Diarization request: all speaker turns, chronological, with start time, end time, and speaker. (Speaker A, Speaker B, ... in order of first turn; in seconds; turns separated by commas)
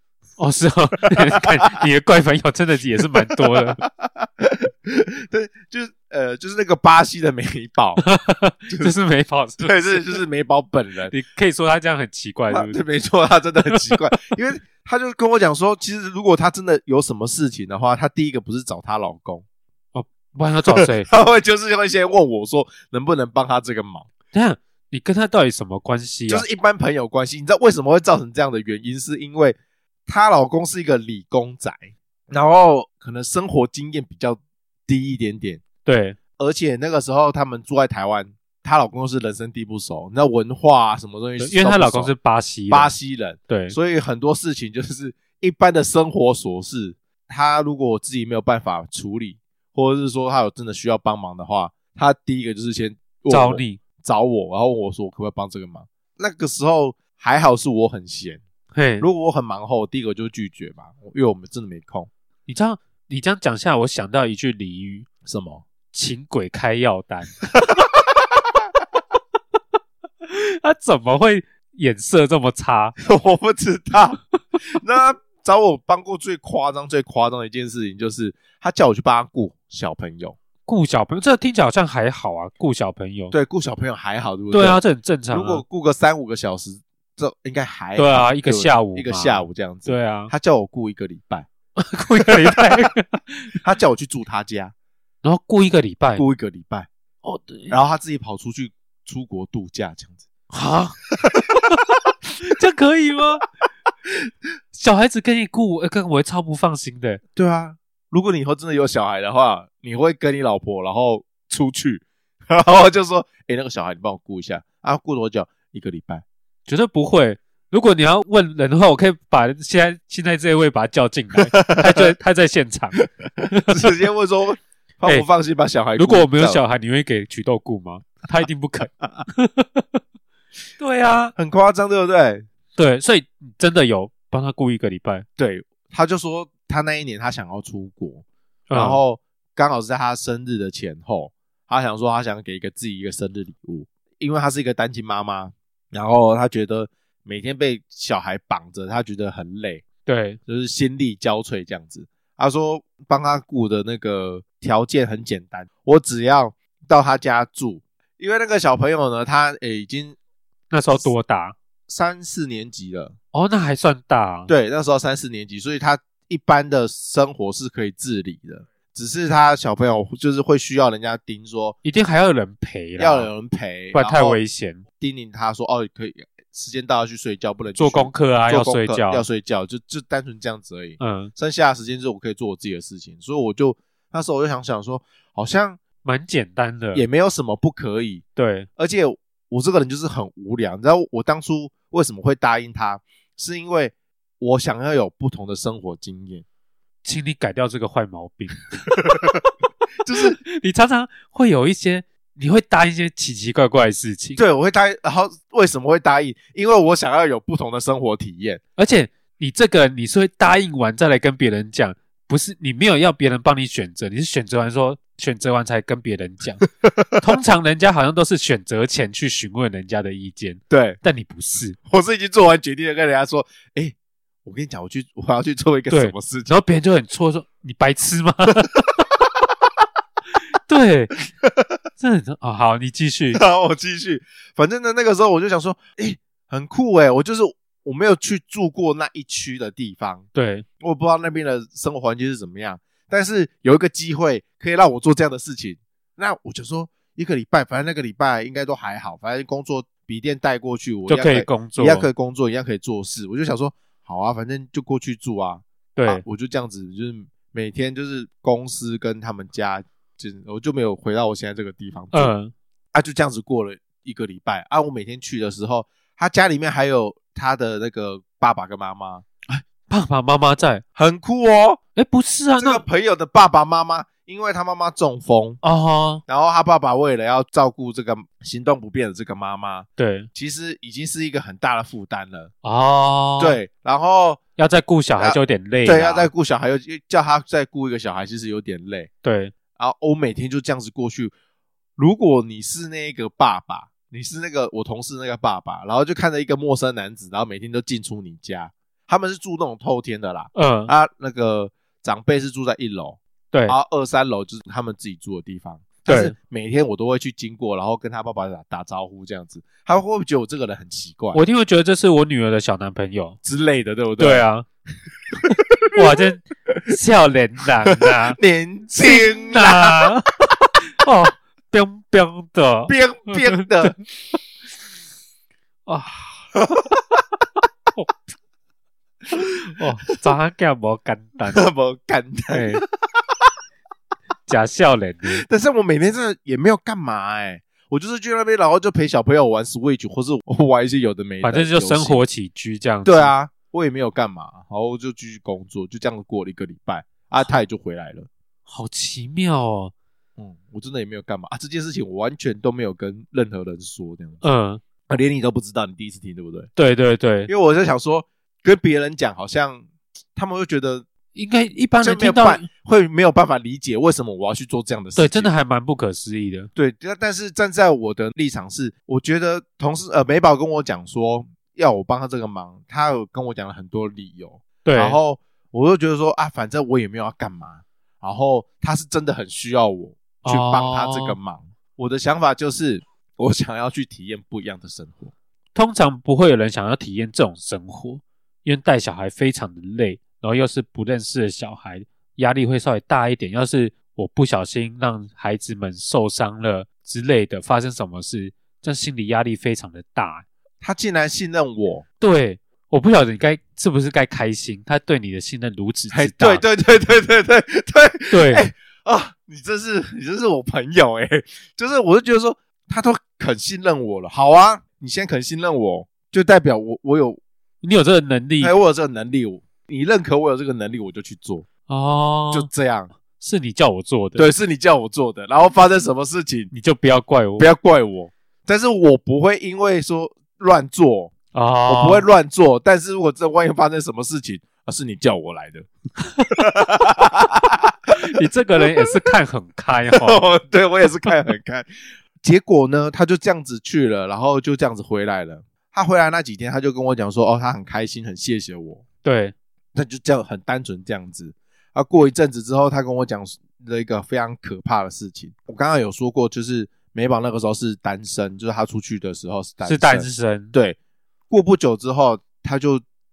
Speaker A: 0.4-3.8, Speaker B: 3.3-8.0, Speaker A: 8.0-10.2, Speaker B: 8.7-8.9, Speaker B: 9.6-11.1, Speaker A: 11.1-12.8, Speaker B: 12.5-19.4, Speaker A: 19.9-21.1, Speaker B: 20.7-24.1, Speaker A: 24.3-26.5, Speaker B: 26.3-35.6, Speaker A: 35.8-36.2, Speaker B: 36.4-42.1, Speaker A: 41.4-42.9, Speaker B: 42.7-58.4, Speaker A: 43.5-43.8, Speaker A: 53.3-53.8, Speaker A: 58.7-59.1, Speaker B: 59.0-62.1, Speaker A: 62.5-65.1, Speaker B: 65.2-65.6, Speaker A: 65.9-67.3, Speaker B: 67.5-68.6, Speaker A: 70.2-73.0, Speaker B: 73.0-80.4, Speaker A: 80.7-83.3, Speaker B: 83.3-91.5, Speaker A: 84.5-85.6, Speaker A: 88.0-90.3, Speaker A: 91.8-93.5, Speaker B: 92.2-92.8, Speaker B: 93.6-94.7, Speaker A: 95.2-96.2, Speaker B: 96.2-96.9, Speaker A: 97.2-97.8, Speaker B: 97.7-100.2, Speaker A: 100.5-101.0, Speaker A: 102.4-103.4, Speaker A: 104.7-107.2, Speaker B: 107.3-116.2, Speaker A: 116.7-123.9, Speaker B: 121.4-122.1, Speaker B: 123.4-126.6, Speaker A: 126.0-130.0, Speaker A: 130.8-131.3, Speaker B: 131.4-132.4, Speaker A: 132.8-135.2, Speaker B: 135.4-149.8, Speaker A: 138.7-139.0, Speaker A: 150.1-150.4, Speaker B: 150.5-160.2, Speaker A: 160.7-161.6, Speaker B: 161.9-163.1, Speaker A: 163.3-164.5, Speaker B: 164.5-171.8, Speaker A: 171.8-173.3, Speaker B: 173.0-174.4, Speaker A: 173.9-174.8, Speaker B: 175.0-185.8, Speaker A: 177.8-179.2, Speaker A: 181.0-181.3, Speaker A: 186.0-187.0, Speaker B: 186.9-188.2, Speaker A: 188.3-188.7, Speaker B: 188.8-196.4, Speaker A: 197.0-199.5, Speaker B: 199.0-199.3, Speaker B: 200.0-200.4, Speaker A: 200.1-204.4, Speaker B: 204.4-208.6, Speaker A: 208.8-216.6, Speaker B: 216.8-217.2, Speaker A: 217.2-221.8, Speaker B: 220.7-221.0, Speaker B: 221.9-226.5, Speaker A: 225.9-229.0, Speaker A: 230.5-231.2, Speaker A: 232.0-233.4, Speaker B: 233.3-240.2, Speaker A: 240.3-240.6, Speaker B: 240.8-262.3, Speaker A: 251.1-252.1, Speaker A: 255.9-256.2, Speaker A: 262.1-262.5, Speaker B: 262.9-269.2, Speaker A: 269.5-270.8, Speaker B: 270.9-271.8, Speaker A: 271.9-272.8, Speaker B: 272.6-275.6, Speaker A: 275.6-276.2, Speaker B: 276.3-282.5, Speaker A: 280.0-280.3, Speaker A: 282.6-283.6, Speaker B: 283.4-284.4, Speaker A: 284.6-286.3, Speaker B: 285.2-289.1, Speaker A: 289.2-289.5, Speaker B: 289.8-291.3, Speaker B: 292.0-311.4, Speaker A: 300.5-300.9, Speaker A: 303.5-303.8, Speaker A: 306.1-306.3, Speaker A: 311.3-313.4, Speaker B: 313.4-314.4, Speaker A: 314.2-314.6, Speaker B: 315.4-316.0, Speaker A: 315.9-318.4, Speaker B: 317.9-320.1, Speaker A: 319.0-320.3, Speaker A: 320.9-323.9, Speaker B: 322.9-323.9, Speaker A: 325.9-326.5, Speaker B: 326.5-327.2, Speaker A: 327.9-328.2, Speaker A: 329.8-331.6, Speaker B: 331.5-332.8, Speaker A: 332.5-332.8, Speaker A: 334.5-335.4, Speaker B: 335.3-342.2, Speaker A: 341.4-343.3, Speaker B: 343.0-348.3, Speaker A: 348.7-349.9, Speaker B: 350.4-354.4, Speaker A: 354.4-354.8, Speaker B: 355.1-356.7, Speaker A: 356.8-357.5, Speaker B: 357.5-361.1, Speaker A: 361.3-362.7, Speaker B: 362.0-365.5, Speaker A: 365.1-366.7, Speaker B: 366.8-385.3, Speaker A: 374.8-375.2, Speaker A: 380.4-381.4, Speaker A: 385.7-400.4, Speaker B: 400.8-402.0, Speaker A: 402.2-406.6, Speaker B: 406.1-417.4, Speaker A: 408.3-408.7, Speaker A: 417.8-418.7, Speaker B: 418.6-421.7, Speaker A: 421.9-422.7, Speaker B: 422.5-423.1, Speaker A: 423.4-424.5, Speaker B: 424.4-426.7, Speaker A: 426.7-427.7, Speaker B: 427.6-431.3, Speaker A: 431.5-432.3, Speaker B: 431.9-435.9, Speaker B: 436.4-437.9, Speaker A: 438.1-440.4, Speaker B: 440.1-441.9, Speaker B: 442.4-449.0, Speaker A: 449.2-449.5, Speaker B: 449.9-461.0, Speaker A: 459.8-460.7, Speaker B: 461.5-463.0